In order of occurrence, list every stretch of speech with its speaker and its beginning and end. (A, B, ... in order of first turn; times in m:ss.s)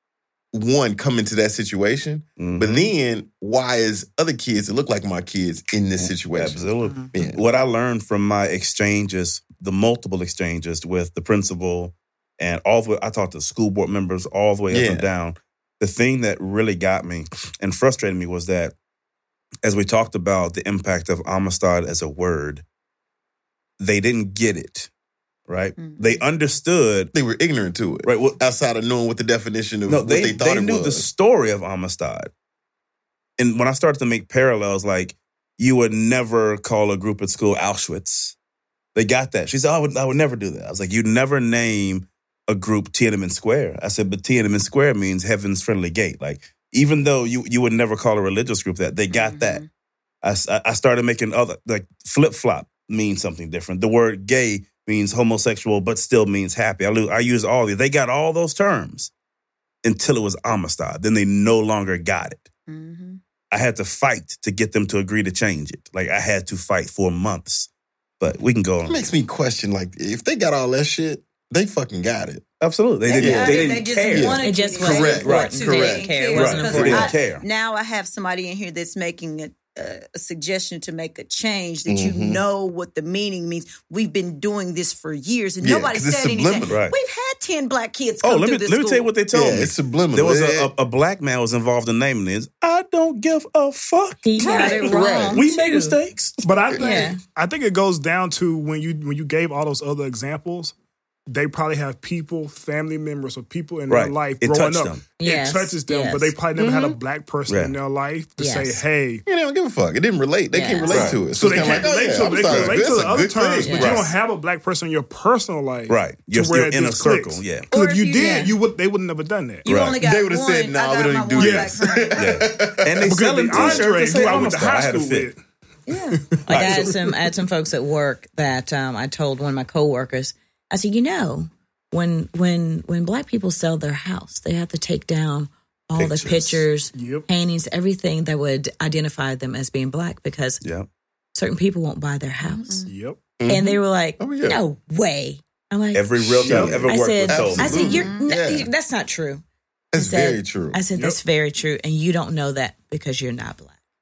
0:00.5-0:07.4 A
0:02.4-0:02.9 B
0:06.0-0:18.8 B
0:06.8-0:07.1 C
0:14.7-0:15.1 A
0:19.6-0:22.6 B
0:23.8-0:24.9 B
0:25.5-0:27.1 B
0:25.8-0:26.2 D
0:27.1-0:31.1 A
0:28.0-0:28.4 B
0:29.9-0:32.3 B
0:33.4-0:38.4 B
0:39.0-0:49.6 B
0:49.1-0:49.7 D
0:50.2-0:59.1 B
0:59.8-1:02.5 B
1:02.7-1:03.2 D
1:03.5-1:07.7 B
1:08.2-1:09.0 B
1:08.9-1:12.4 A
1:12.6-1:14.4 B
1:13.0-1:29.1 D
1:13.2-1:16.1 A
1:14.4-1:17.1 C
1:15.0-1:15.6 B
1:16.3-1:17.4 B
1:16.7-1:17.1 A
1:21.9-1:22.4 A
1:25.6-1:26.8 A
1:26.7-1:26.9 B
1:28.2-1:36.4 B
1:29.3-1:30.7 A
1:34.2-1:36.0 C
1:34.4-1:35.3 D
1:34.9-1:35.4 A
1:36.4-1:40.8 E
1:36.8-1:37.2 C
1:41.3-1:49.2 E
1:43.9-1:45.1 B
1:45.2-1:46.4 C
1:46.6-1:47.0 A
1:47.5-1:47.8 B
1:48.4-1:48.8 C
1:49.3-1:54.0 A
1:50.5-1:51.0 C
1:50.9-1:51.8 B
1:51.3-1:59.7 E
1:52.3-1:52.8 B
1:53.6-1:54.0 C
1:53.8-1:54.1 B
1:55.9-1:57.7 B
1:57.7-1:58.5 D
1:58.2-1:58.5 C
1:59.6-2:02.4 D
1:59.7-2:00.0 B
2:00.0-2:03.9 A
2:01.4-2:01.8 E
2:02.2-2:05.3 B
2:03.0-2:05.4 E
2:05.9-2:06.2 D
2:06.0-2:07.2 E
2:06.5-2:20.6 C
2:06.5-2:06.9 B
2:16.0-2:16.6 B
2:16.9-2:17.3 E
2:20.6-2:20.9 B
2:21.4-2:22.9 C
2:22.4-2:22.9 D
2:22.9-2:23.2 E
2:23.4-2:24.6 A
2:23.5-2:29.4 C
2:25.9-2:27.8 B
2:26.4-2:28.7 A
2:26.4-2:26.8 E
2:27.6-2:28.2 D
2:29.9-2:30.8 A
2:30.0-2:33.8 C